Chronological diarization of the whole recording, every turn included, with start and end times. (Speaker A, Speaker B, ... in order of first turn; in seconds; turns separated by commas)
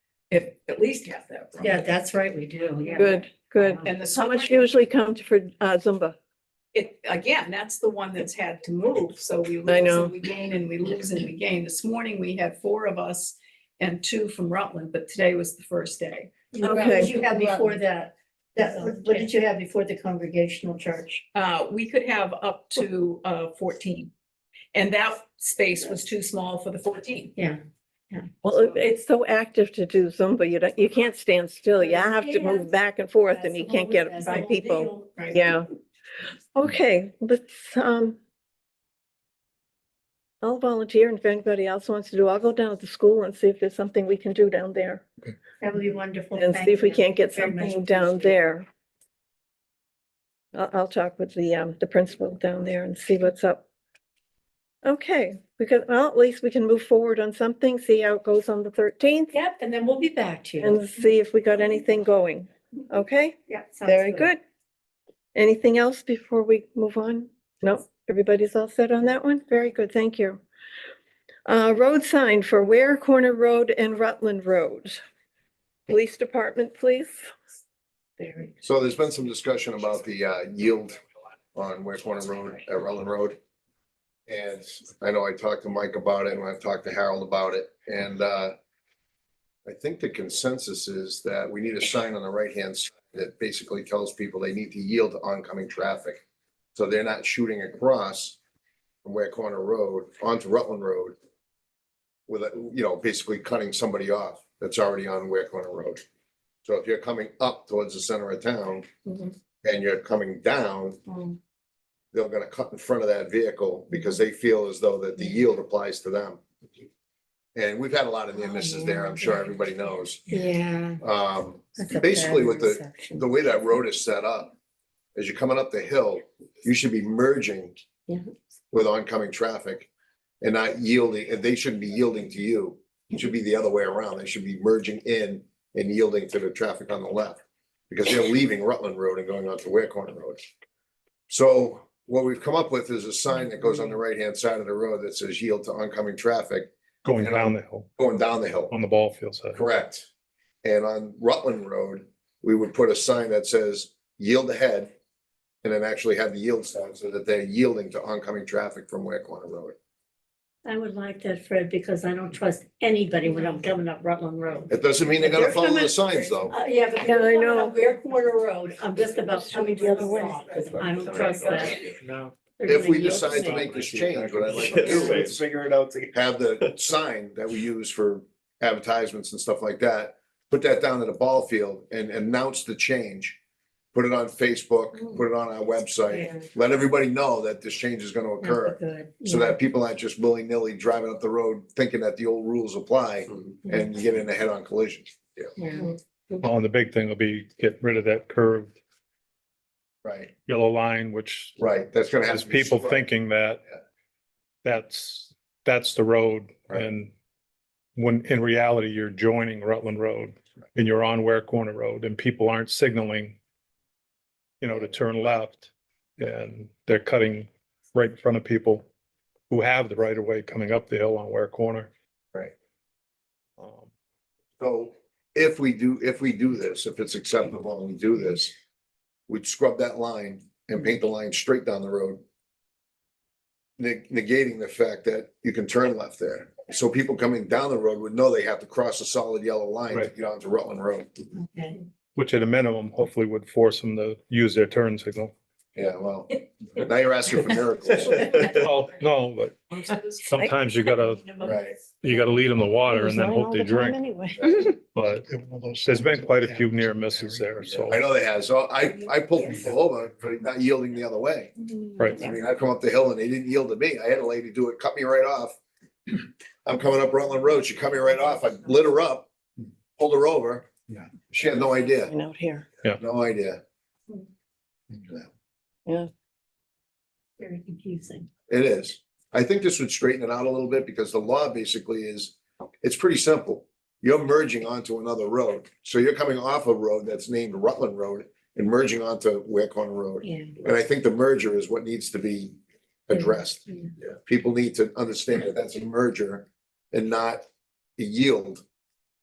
Speaker A: 0.3-1.8, Speaker B: 1.6-3.9, Speaker C: 3.0-6.2, Speaker A: 3.8-4.7, Speaker A: 6.7-16.3, Speaker C: 9.7-10.1, Speaker B: 16.5-21.2, Speaker C: 16.6-17.3, Speaker A: 19.0-19.2, Speaker A: 21.3-24.1, Speaker A: 24.7-27.3, Speaker B: 27.3-28.3, Speaker C: 28.4-35.7, Speaker B: 31.8-32.7, Speaker B: 33.2-35.5, Speaker C: 36.5-38.2, Speaker C: 40.4-45.1, Speaker B: 45.6-48.3, Speaker C: 46.3-48.7, Speaker C: 50.5-53.6, Speaker C: 54.8-59.3, Speaker B: 59.3-60.8, Speaker C: 60.6-64.4, Speaker B: 63.5-64.3, Speaker C: 65.3-70.4, Speaker C: 71.5-75.0, Speaker C: 75.9-77.3, Speaker B: 78.2-78.5, Speaker D: 78.6-81.0, Speaker D: 81.5-83.4, Speaker D: 84.3-88.5, Speaker D: 89.7-96.2, Speaker D: 96.7-98.4, Speaker D: 99.0-101.2, Speaker D: 102.3-106.0, Speaker D: 106.6-108.9, Speaker D: 109.6-111.1, Speaker D: 112.1-116.4, Speaker D: 117.5-120.3, Speaker B: 118.3-119.5, Speaker B: 120.3-121.0, Speaker D: 121.0-124.5, Speaker B: 121.8-123.2, Speaker D: 125.2-127.8, Speaker D: 128.7-129.9, Speaker D: 130.4-140.4, Speaker D: 141.3-148.7, Speaker E: 147.0-147.9, Speaker E: 148.7-149.6, Speaker D: 149.5-150.1, Speaker D: 150.6-154.9, Speaker D: 155.6-159.8, Speaker B: 160.6-171.9, Speaker D: 164.7-166.5, Speaker C: 167.0-167.8, Speaker C: 169.4-170.5, Speaker F: 170.6-172.6, Speaker B: 172.6-173.7, Speaker D: 172.7-175.4, Speaker F: 173.1-177.0, Speaker B: 174.8-175.1, Speaker D: 176.1-183.4, Speaker D: 183.9-195.5, Speaker B: 186.1-186.5, Speaker B: 188.4-189.6, Speaker B: 193.6-193.9, Speaker B: 195.6-196.4, Speaker E: 196.4-198.7, Speaker D: 200.0-200.3, Speaker E: 200.4-201.6, Speaker D: 201.6-203.1, Speaker E: 202.2-203.6, Speaker E: 204.6-207.1, Speaker E: 207.9-213.4, Speaker E: 214.6-218.8, Speaker E: 219.5-221.9, Speaker E: 223.6-223.9, Speaker D: 224.6-228.5, Speaker D: 229.3-232.2, Speaker D: 233.8-241.2, Speaker B: 241.4-241.8, Speaker E: 242.2-245.3, Speaker D: 245.7-248.5, Speaker E: 248.4-254.0, Speaker A: 249.9-250.6, Speaker A: 251.3-251.5, Speaker D: 251.4-251.8, Speaker C: 252.9-254.7, Speaker E: 254.7-258.0, Speaker D: 257.9-265.6, Speaker E: 262.0-262.2, Speaker D: 266.1-269.3, Speaker D: 270.0-270.7, Speaker D: 271.3-272.1, Speaker C: 272.0-272.7, Speaker D: 272.9-273.6, Speaker B: 277.4-278.3, Speaker D: 278.5-292.6, Speaker B: 290.2-290.5, Speaker D: 293.1-297.4, Speaker B: 293.1-293.9, Speaker D: 298.0-298.6